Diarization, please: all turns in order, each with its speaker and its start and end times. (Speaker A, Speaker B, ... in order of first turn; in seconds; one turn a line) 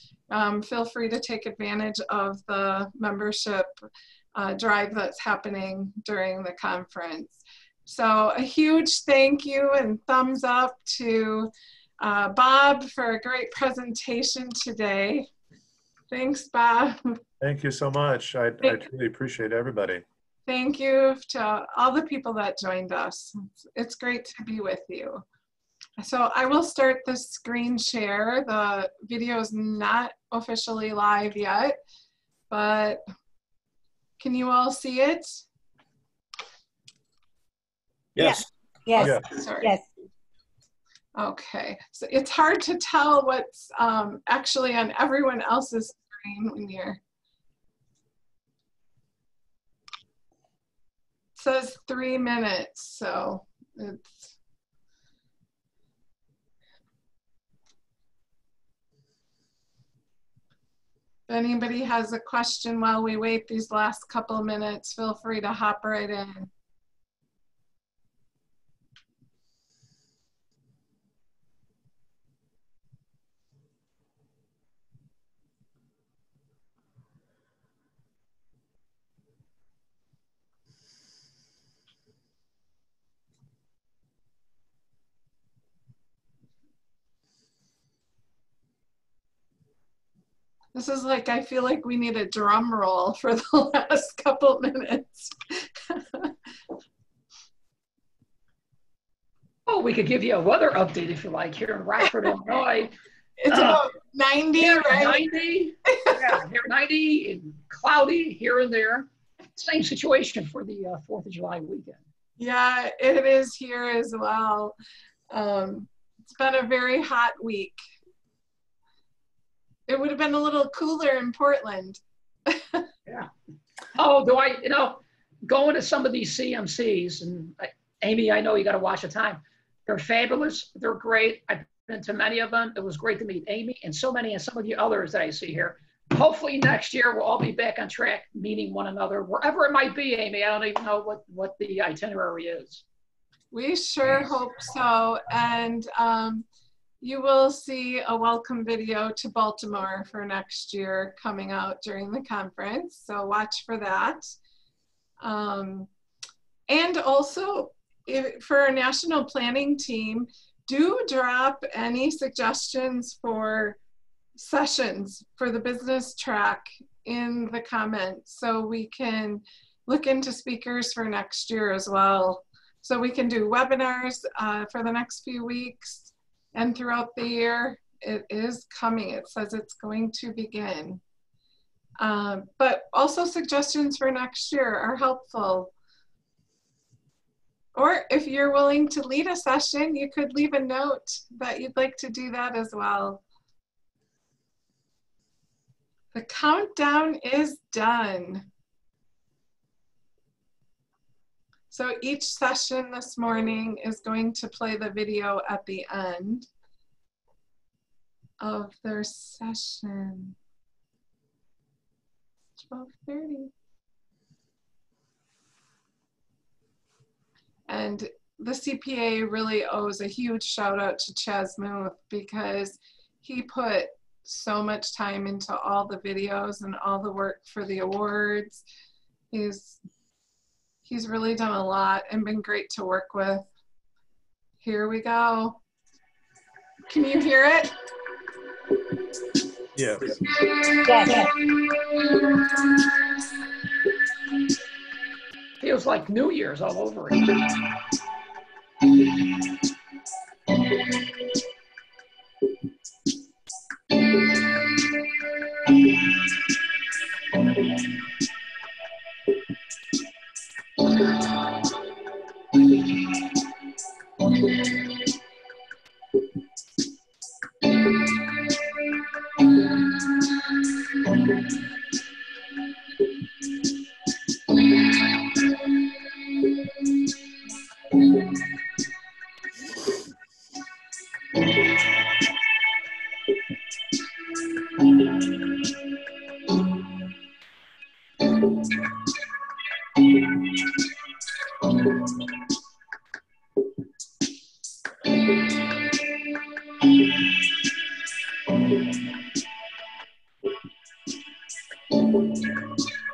Speaker A: 0.3-15.3
Speaker A: 16.1-17.2
Speaker B: 17.4-20.0
Speaker A: 20.4-25.2
Speaker A: 26.0-31.8
Speaker A: 32.5-33.0
Speaker A: 34.2-35.4
Speaker C: 38.2-39.8
Speaker B: 39.0-39.2
Speaker A: 39.0-39.7
Speaker A: 41.1-47.0
Speaker A: 51.4-54.3
Speaker A: 61.3-66.5
Speaker A: 90.7-96.3
Speaker D: 99.7-102.9
Speaker A: 103.4-105.2
Speaker D: 103.5-103.8
Speaker D: 104.6-112.0
Speaker A: 105.9-106.3
Speaker A: 112.4-114.8
Speaker A: 115.3-117.8
Speaker A: 119.9-122.9
Speaker D: 123.9-142.8
Speaker A: 143.5-146.4
Speaker A: 147.0-154.3
Speaker A: 155.2-155.9
Speaker A: 156.7-163.8
Speaker A: 164.3-181.0
Speaker A: 182.0-185.7
Speaker A: 187.7-193.2
Speaker A: 196.1-198.5
Speaker A: 201.7-206.5
Speaker A: 208.4-210.3
Speaker A: 212.6-213.5
Speaker A: 217.7-228.6
Speaker A: 229.3-229.8
Speaker A: 230.8-233.5
Speaker A: 234.6-235.6
Speaker A: 236.9-237.7
Speaker B: 239.7-240.2
Speaker C: 240.8-241.3
Speaker D: 245.6-247.3